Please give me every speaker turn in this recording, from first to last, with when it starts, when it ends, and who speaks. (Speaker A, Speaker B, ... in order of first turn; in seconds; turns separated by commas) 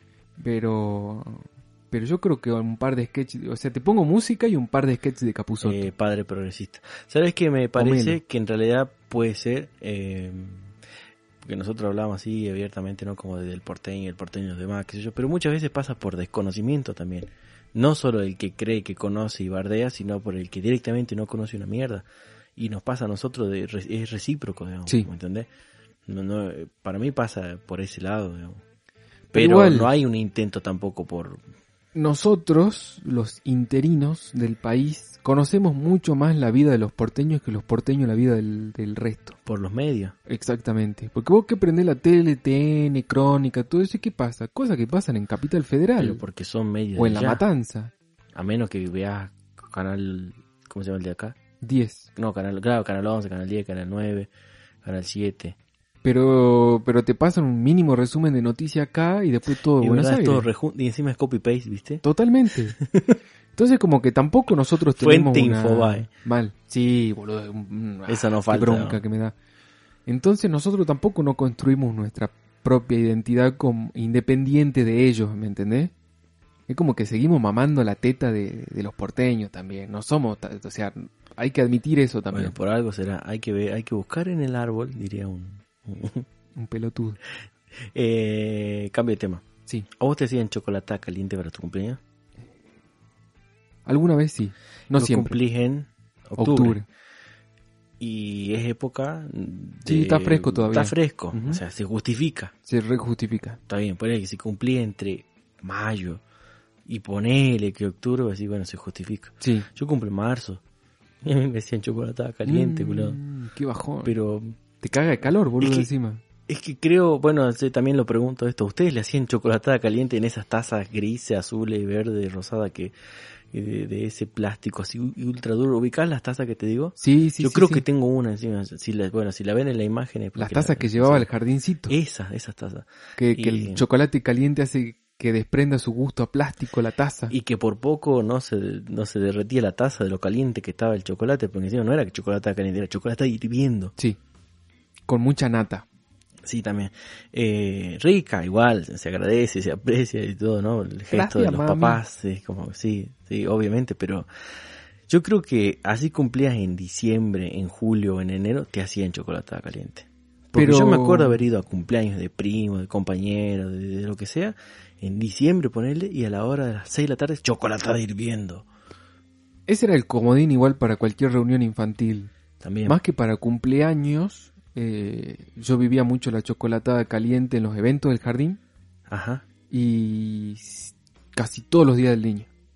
Speaker A: 0.4-5.9, Speaker B: 5.6-10.7, Speaker A: 7.8-8.2, Speaker B: 11.4-22.1, Speaker B: 22.6-25.5, Speaker B: 26.1-28.6, Speaker B: 29.3-31.4, Speaker A: 29.3-29.9, Speaker A: 31.9-39.4, Speaker B: 39.5-40.1, Speaker A: 40.3-46.2, Speaker B: 46.0-47.4, Speaker A: 47.0-47.9, Speaker B: 48.4-51.4, Speaker A: 51.6-52.1, Speaker B: 52.2-54.3, Speaker B: 54.8-55.6, Speaker A: 56.0-60.5, Speaker B: 59.8-62.0, Speaker A: 62.0-62.8, Speaker B: 62.8-63.2, Speaker A: 63.5-69.3, Speaker B: 65.0-66.1, Speaker B: 68.1-69.0, Speaker A: 70.1-75.9, Speaker A: 76.7-82.5, Speaker B: 82.3-86.3, Speaker A: 86.6-87.2, Speaker B: 87.8-92.0, Speaker A: 93.9-95.4, Speaker B: 94.9-96.8, Speaker A: 96.4-96.8, Speaker B: 98.0-102.5, Speaker A: 99.9-101.6, Speaker A: 102.7-103.6, Speaker B: 103.7-106.2, Speaker B: 106.9-110.6, Speaker A: 109.4-109.7, Speaker B: 111.2-113.2, Speaker A: 112.5-114.1, Speaker B: 114.0-114.6, Speaker A: 114.8-116.2, Speaker B: 115.6-115.9, Speaker B: 116.5-122.9, Speaker B: 123.5-131.3, Speaker A: 127.0-127.8, Speaker A: 130.4-131.9, Speaker B: 131.9-133.8, Speaker A: 133.2-137.3, Speaker B: 137.3-143.9, Speaker A: 145.1-145.8, Speaker B: 146.4-154.3, Speaker A: 151.1-152.0, Speaker B: 155.1-168.7, Speaker A: 160.5-161.4, Speaker A: 169.7-172.3, Speaker B: 172.6-173.0, Speaker A: 172.9-178.6, Speaker B: 179.1-179.4, Speaker A: 179.7-182.5